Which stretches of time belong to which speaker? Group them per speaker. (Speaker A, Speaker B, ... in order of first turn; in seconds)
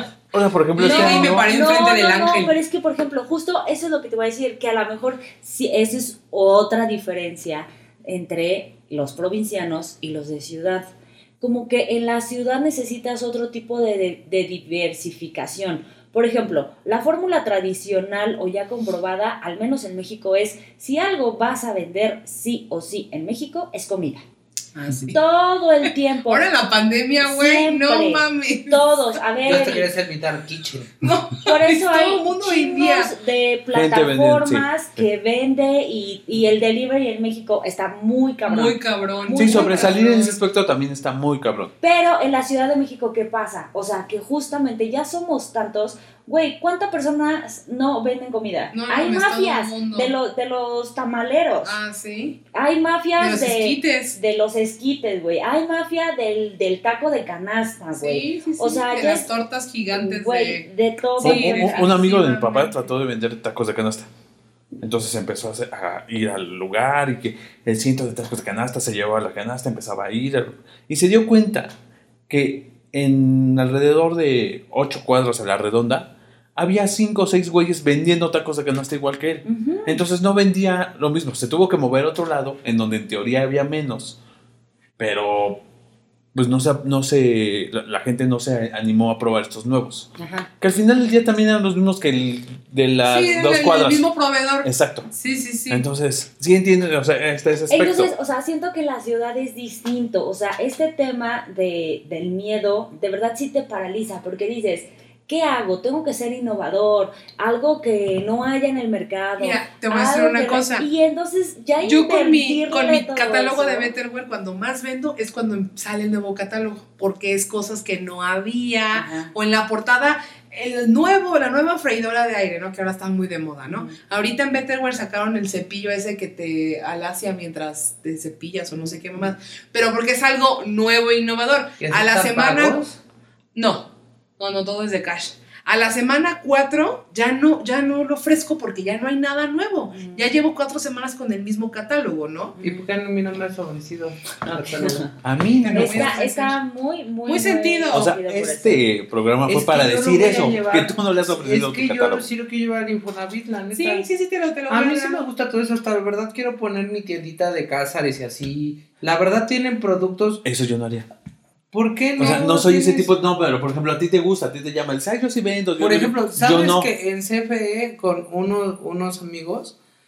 Speaker A: 0.3-1.4, 33.7-35.0, 39.4-41.7, 61.2-64.1, 64.8-71.7, 72.3-84.2, 85.0-85.6, 86.3-94.1, 94.6-95.1, 95.7-98.1, 145.2-146.1, 147.9-152.2, 160.4-161.1, 162.2-166.9
Speaker B: 0.8-2.5, 24.7-25.2, 25.8-29.0, 31.0-33.1, 38.5-40.4, 48.7-50.1, 51.6-52.4, 53.2-54.2, 58.0-60.7, 61.2-62.9, 93.0-95.8, 109.4-110.8, 111.8-132.8, 133.5-142.6, 145.6-146.6, 147.2-148.1, 153.7-155.2
Speaker C: 0.8-24.2, 25.1-26.5, 27.2-29.9, 31.4-40.0, 41.8-51.8, 52.5-59.3, 59.9-61.9, 79.4-80.0, 90.2-90.5, 97.7-113.9, 118.9-119.3, 123.7-124.0, 139.9-140.3, 142.6-142.8, 144.5-145.1, 145.7-148.9
Speaker D: 29.4-30.9, 131.8-133.0, 142.6-145.1, 149.4-154.1, 154.7-160.4, 161.7-163.1, 165.8-169.8